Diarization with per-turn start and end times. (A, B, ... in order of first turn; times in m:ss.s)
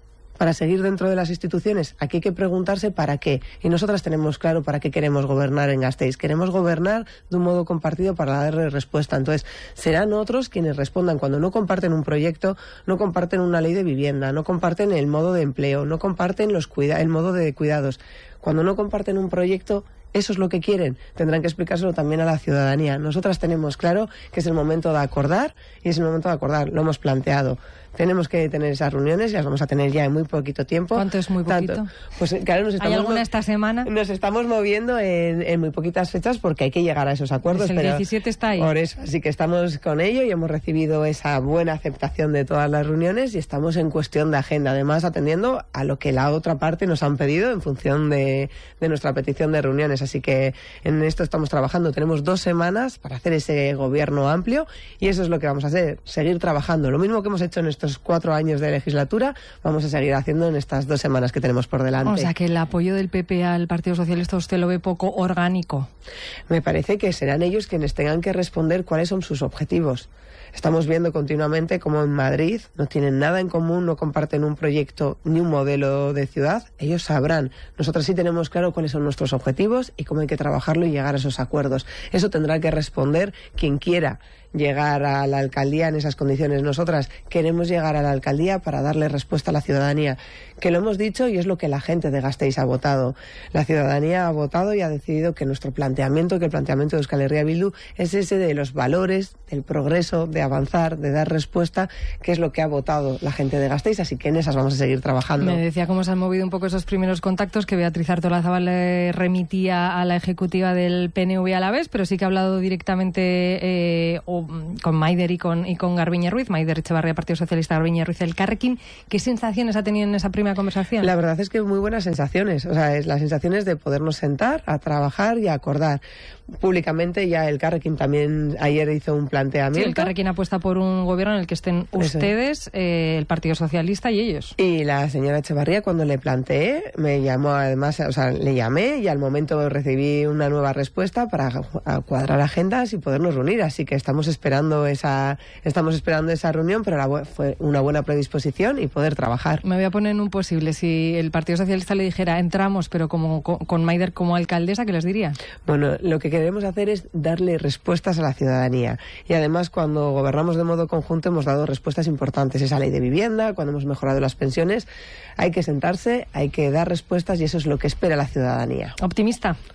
0:00.4-0:33.2 A
0:30.9-0:31.9 B
0:32.8-0:33.9 B
0:33.8-0:38.0 A
0:37.5-0:38.7 B
0:38.6-1:02.3 A
1:02.0-1:05.9 B
1:06.5-1:45.6 A
1:45.4-2:01.1 B
2:01.0-2:06.0 A
2:06.6-2:10.1 A
2:09.7-2:14.5 B
2:12.0-2:12.3 A
2:14.6-2:29.6 A
2:29.6-2:35.4 B
2:35.6-2:44.9 A
2:45.4-2:49.0 A
2:49.0-2:49.6 B